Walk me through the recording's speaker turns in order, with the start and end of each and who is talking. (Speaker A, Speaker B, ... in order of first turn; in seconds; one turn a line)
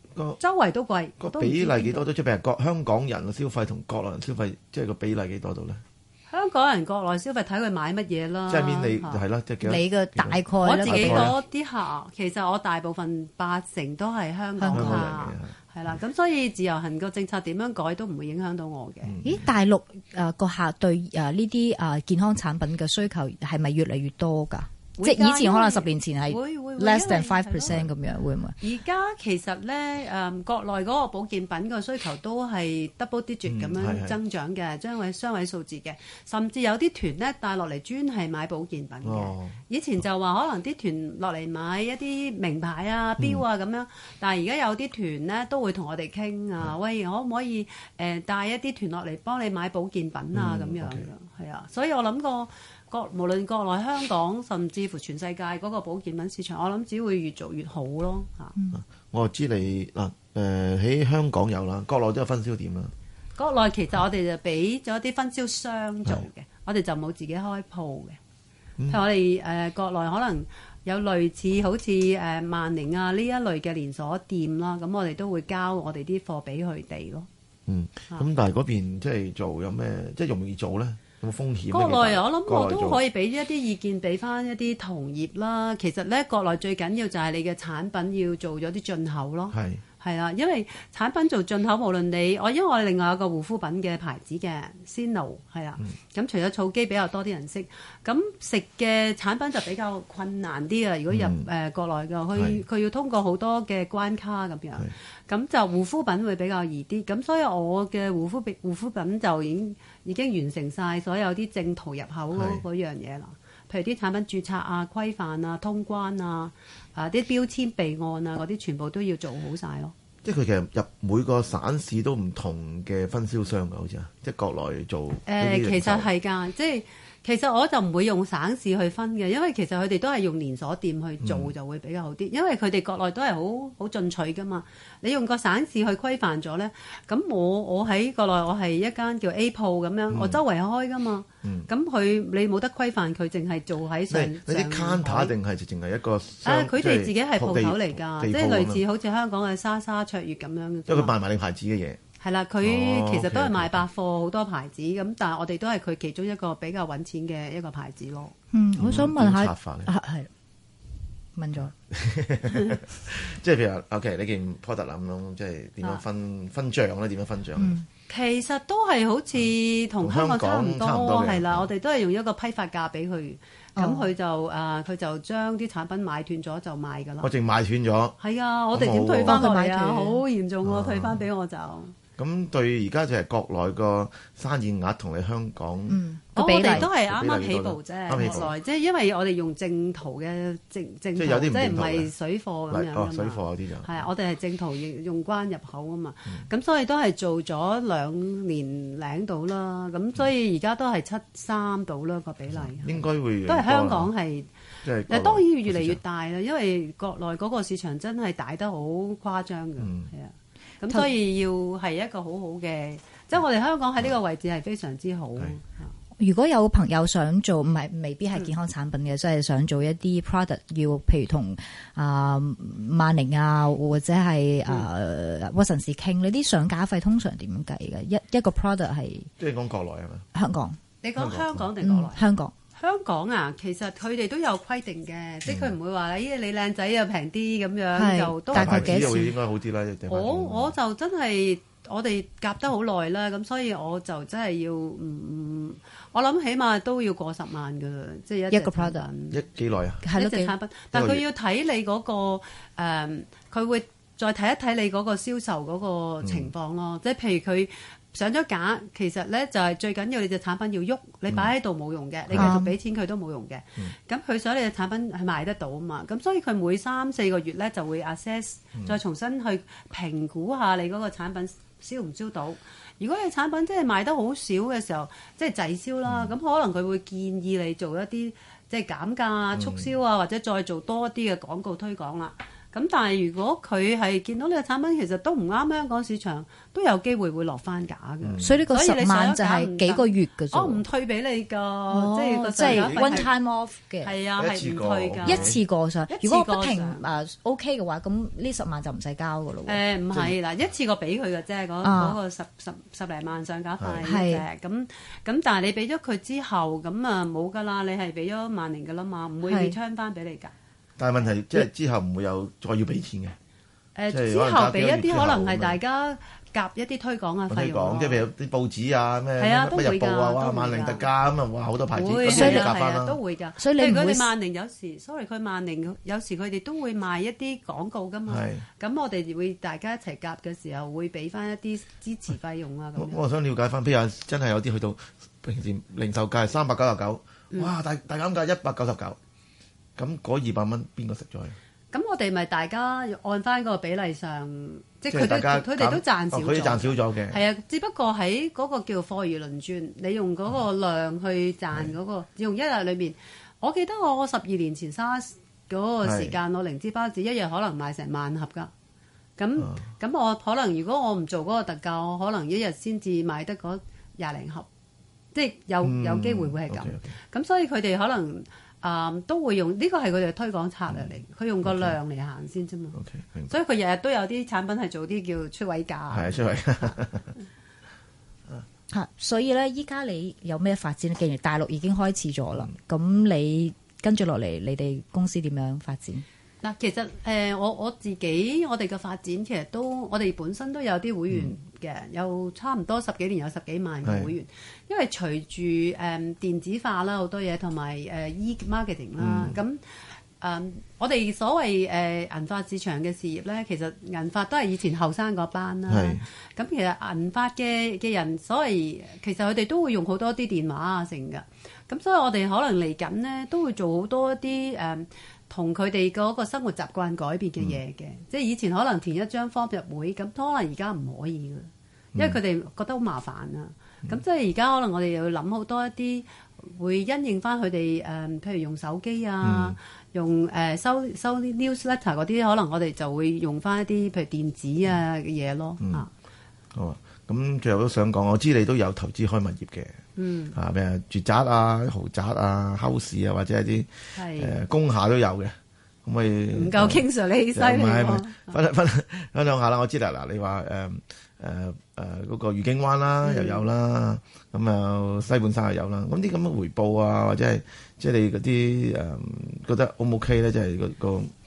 Speaker A: 0.4-2.0
Speaker B: 1.2-5.8
Speaker A: 6.3-9.2
Speaker B: 8.5-11.3
Speaker C: 9.6-11.3
Speaker A: 10.6-19.2
Speaker C: 14.6-15.1
Speaker B: 14.7-15.9
Speaker B: 19.0-19.5
Speaker C: 19.2-28.6
Speaker A: 25.0-27.8
Speaker A: 28.6-58.5
Speaker B: 33.5-34.2
Speaker B: 39.0-39.6
Speaker B: 50.3-51.1
Speaker B: 58.7-62.9
Speaker A: 63.4-68.2
Speaker A: 68.9-77.3
Speaker B: 77.7-83.0
Speaker A: 81.7-119.9
Speaker B: 89.5-89.8
Speaker B: 101.1-101.5
Speaker B: 112.3-112.6
Speaker B: 120.2-126.1
Speaker A: 125.3-145.3
Speaker B: 131.2-131.5
Speaker B: 140.1-140.4
Speaker B: 141.4-141.7
Speaker B: 144.1-148.8
Speaker A: 146.4-151.1
Speaker B: 150.9-152.0
Speaker A: 152.2-158.3
Speaker B: 152.6-153.8
Speaker C: 158.5-160.3
Speaker B: 158.8-159.9
Speaker C: 161.4-161.7
Speaker B: 161.6-167.8
Speaker C: 167.6-167.9
Speaker A: 168.1-177.3
Speaker B: 170.0-171.7
Speaker C: 173.8-174.1
Speaker B: 177.2-178.2
Speaker A: 178.2-181.9
Speaker B: 178.7-179.5
Speaker C: 179.3-180.2
Speaker B: 180.6-181.2
Speaker B: 182.2-188.5
Speaker C: 185.9-186.9
Speaker A: 186.3-204.5
Speaker B: 191.2-192.1
Speaker B: 192.7-194.1
Speaker B: 202.5-204.1
Speaker B: 204.8-206.0
Speaker A: 205.1-215.9
Speaker B: 209.8-210.1
Speaker C: 216.2-229.3
Speaker B: 229.4-230.3
Speaker C: 230.3-230.8
Speaker A: 231.0-232.2
Speaker B: 231.2-231.6
Speaker C: 231.8-232.5
Speaker A: 232.8-239.2
Speaker B: 235.5-235.7
Speaker C: 237.9-239.3
Speaker B: 238.5-240.7
Speaker A: 240.1-249.5
Speaker C: 248.5-249.1
Speaker B: 249.3-250.0
Speaker C: 250.0-250.5
Speaker A: 250.1-293.3
Speaker B: 250.9-251.2
Speaker B: 256.2-256.5
Speaker B: 262.3-262.6
Speaker C: 262.3-262.7
Speaker B: 276.1-276.3
Speaker B: 279.6-279.9
Speaker B: 288.2-288.6
Speaker C: 288.4-290.8
Speaker C: 291.9-294.2
Speaker B: 292.6-293.3
Speaker A: 294.0-295.6
Speaker B: 294.4-295.6
Speaker C: 295.2-299.8
Speaker A: 296.1-297.1
Speaker A: 299.7-310.5
Speaker C: 301.8-302.2
Speaker B: 303.8-304.1
Speaker C: 304.0-304.4
Speaker C: 309.5-309.8
Speaker B: 311.0-313.4
Speaker A: 314.0-318.2
Speaker B: 314.1-315.8
Speaker B: 317.5-323.2
Speaker A: 319.4-321.1
Speaker A: 321.9-333.2
Speaker C: 322.3-322.8
Speaker C: 323.6-324.3
Speaker B: 328.3-328.6
Speaker B: 333.0-339.2
Speaker B: 340.0-341.6
Speaker A: 341.9-358.7
Speaker B: 345.1-347.4
Speaker B: 356.0-356.4
Speaker A: 359.4-364.7
Speaker A: 365.3-377.0
Speaker B: 365.8-367.1
Speaker B: 371.6-372.0
Speaker B: 372.9-373.6
Speaker B: 376.1-377.3
Speaker C: 378.9-386.2
Speaker A: 386.6-399.8
Speaker B: 394.0-394.3
Speaker B: 399.2-399.6
Speaker A: 400.4-436.1
Speaker B: 405.9-406.2
Speaker B: 429.4-429.8
Speaker B: 435.8-436.1
Speaker B: 436.7-440.0
Speaker A: 440.2-440.6
Speaker B: 440.6-461.3
Speaker A: 444.1-444.6
Speaker A: 446.5-448.6
Speaker A: 453.2-453.6